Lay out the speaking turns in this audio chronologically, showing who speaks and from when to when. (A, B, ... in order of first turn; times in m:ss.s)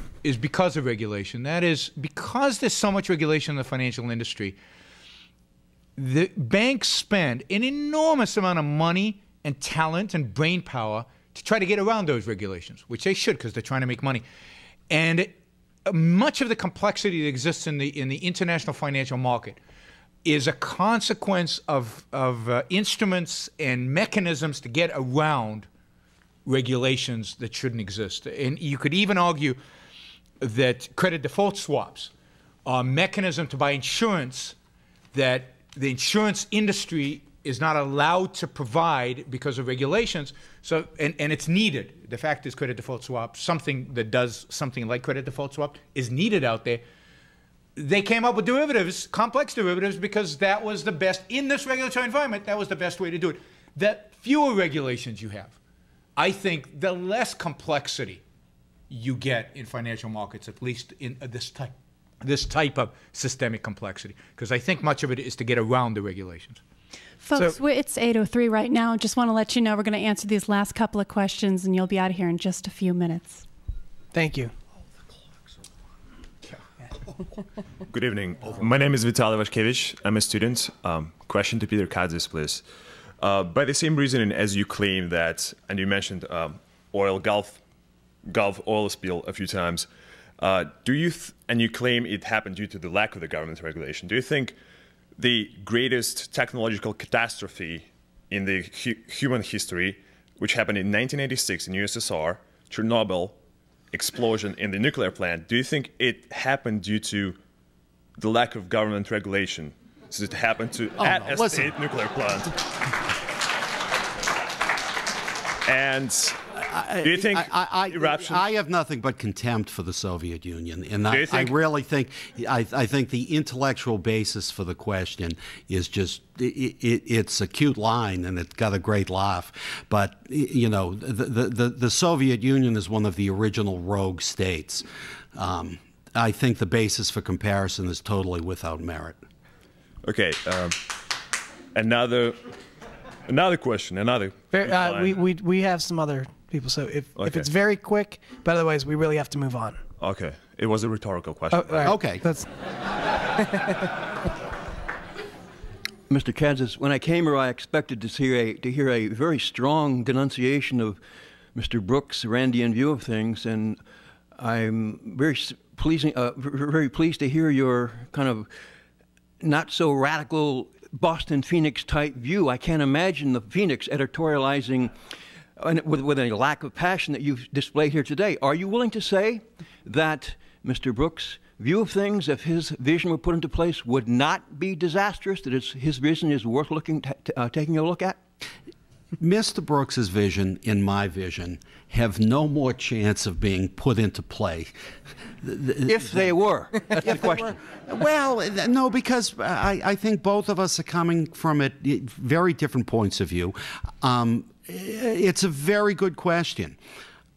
0:00.2-0:04.6 A
0:06.0-0:14.2 A
0:14.9-0:15.3 A
0:15.8-0:19.6 A
0:20.2-0:25.7 A
0:26.4-0:29.6 A
0:30.4-0:32.1 A
0:32.6-0:34.5 A
0:35.1-0:46.8 A
0:47.8-0:55.6 A
0:56.2-0:58.2 A
0:58.9-1:06.6 A
1:07.2-1:13.4 B
1:14.1-1:14.5 C
1:17.9-1:22.6 D
1:23.2-1:27.6 D
1:28.2-1:34.6 D
1:35.2-1:43.4 D
1:43.9-1:47.4 D
1:48.2-1:52.6 D
1:51.0-1:51.7 E
1:55.6-1:56.4 D
1:56.6-2:19.2 E
1:57.0-1:58.4 D
2:01.1-2:01.6 D
2:20.0-2:21.0 D
2:21.7-2:22.5 D
2:23.2-2:25.1 D
2:24.5-2:29.8 C
2:27.2-2:27.5 D
2:30.0-2:32.0 D
2:31.5-2:32.4 C
2:31.8-2:32.2 E
2:33.5-2:33.8 C
2:36.1-2:41.0 F
2:41.5-2:43.8 F
2:44.4-2:48.5 F
2:49.4-2:54.9 F
2:55.6-3:08.2 F
3:09.2-3:14.7 E
3:15.4-3:16.3 E
3:15.8-3:17.5 F
3:17.0-3:26.8 E